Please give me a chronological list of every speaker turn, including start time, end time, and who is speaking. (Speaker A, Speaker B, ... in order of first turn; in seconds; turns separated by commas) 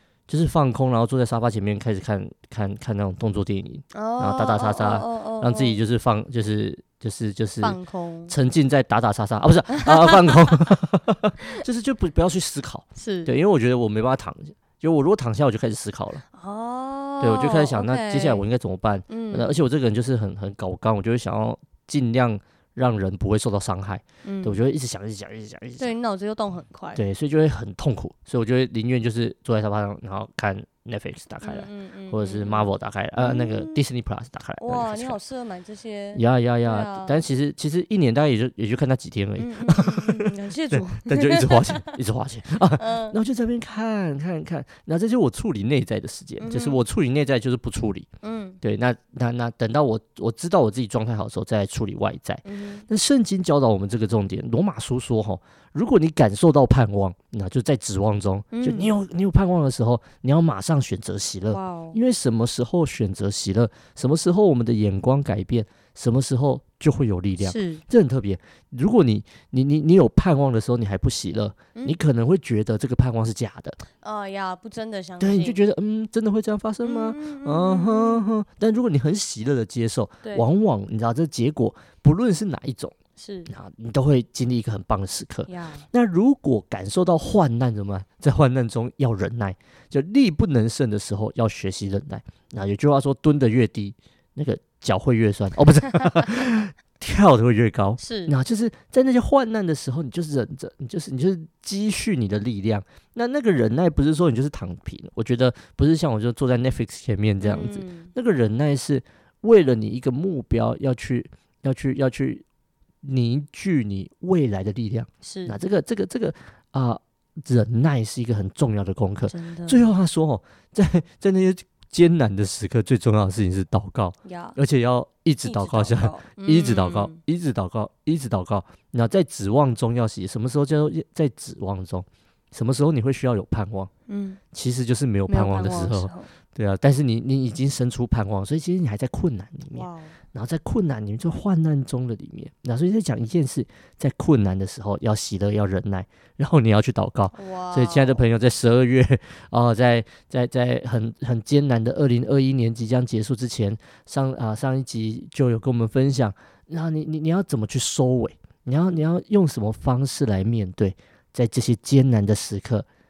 Speaker A: 0.3-16.2, Speaker B: 3.9-5.8, Speaker B: 7.6-8.3, Speaker B: 9.8-10.5, Speaker B: 12.9-13.3, Speaker B: 16.3-18.4, Speaker A: 17.2-25.9, Speaker B: 19.1-19.6, Speaker B: 24.2-24.6, Speaker B: 25.8-27.0, Speaker A: 26.9-35.2, Speaker B: 31.4-33.8, Speaker B: 34.6-37.2, Speaker A: 36.1-48.1, Speaker B: 39.4-41.9, Speaker B: 42.8-43.1, Speaker B: 46.4-46.8, Speaker B: 48.2-48.6, Speaker A: 48.6-73.8, Speaker B: 52.4-52.9, Speaker B: 58.5-58.9, Speaker B: 61.5-62.0, Speaker B: 67.4-67.8, Speaker B: 74.0-75.6, Speaker A: 75.2-82.9, Speaker B: 76.8-78.3, Speaker B: 83.2-83.5, Speaker A: 83.5-112.4, Speaker B: 85.5-85.9, Speaker B: 98.0-98.3, Speaker B: 107.4-108.1, Speaker A: 113.0-133.9, Speaker B: 115.2-115.6, Speaker B: 119.3-119.8, Speaker B: 124.2-124.6, Speaker B: 125.4-127.2, Speaker B: 134.1-134.4, Speaker A: 134.5-162.8, Speaker B: 135.3-136.3, Speaker B: 139.7-140.1, Speaker B: 147.3-148.2